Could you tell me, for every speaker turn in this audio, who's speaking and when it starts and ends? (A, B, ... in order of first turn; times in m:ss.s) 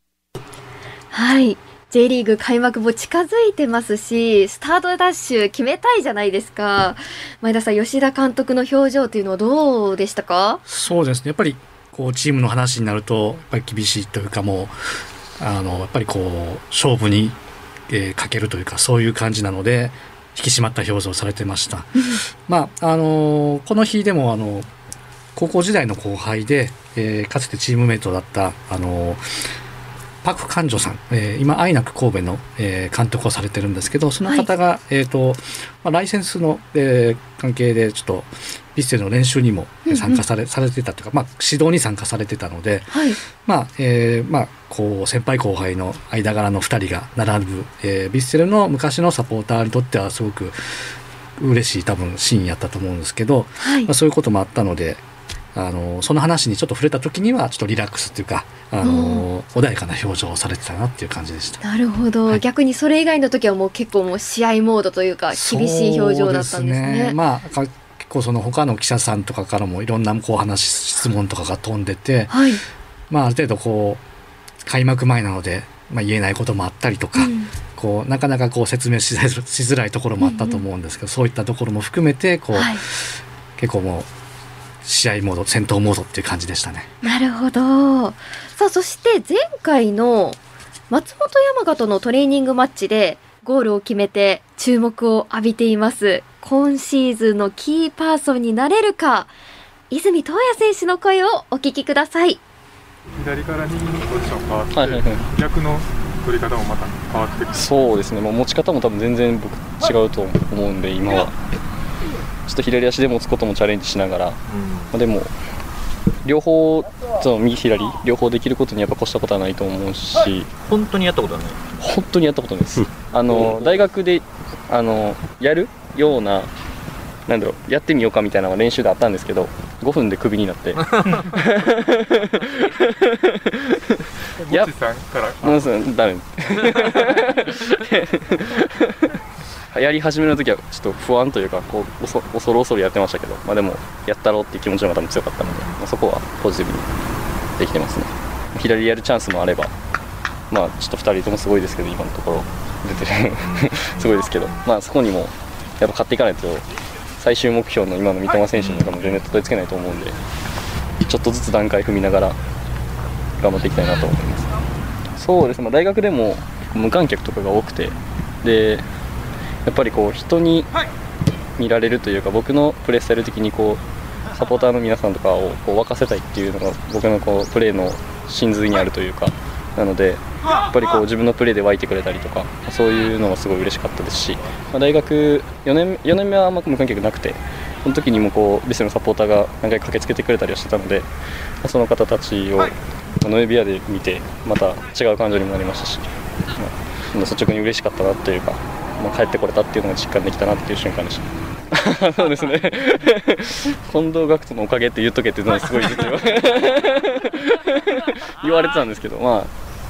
0:01.1-0:10.6 A
0:10.7-0:14.8 B
0:15.4-0:17.4 B
0:17.9-0:24.7 B
0:25.4-0:29.2 B
0:30.2-0:50.6 B
0:34.2-0:34.5 A
0:39.9-0:40.2 A
0:42.9-0:43.2 A
0:51.4-0:55.0 B
0:53.6-0:53.9 A
0:55.6-1:01.6 B
0:58.8-0:59.3 A
1:01.6-1:07.2 A
1:05.3-1:12.4 B
1:12.3-1:12.6 A
1:13.1-1:14.0 B
1:14.6-1:24.1 B
1:17.2-1:17.5 A
1:20.2-1:20.6 A
1:22.5-1:22.8 A
1:24.8-1:26.9 B
1:27.0-1:30.4 A
1:30.9-1:39.3 A
1:39.9-1:42.4 A
1:43.1-1:47.7 C
1:44.7-1:45.2 D
1:47.6-1:51.3 D
1:52.5-1:54.4 D
1:54.5-1:54.9 E
1:54.9-1:55.3 D
1:56.2-2:00.5 D
2:00.6-2:01.6 E
2:01.8-2:06.5 D
2:02.8-2:03.6 E
2:07.3-2:13.8 D
2:14.4-2:15.7 C
2:15.4-2:19.0 D
2:19.7-2:26.9 D
2:27.6-2:29.7 D
2:30.5-2:36.6 D
2:33.4-2:34.0 E
2:37.2-2:40.2 D
2:38.6-2:38.8 E
2:41.0-2:42.4 D
2:43.4-2:44.5 D
2:45.2-2:48.8 D
2:49.7-2:50.7 D
2:51.6-2:53.8 D
2:54.4-3:11.1 D
3:11.6-3:29.5 D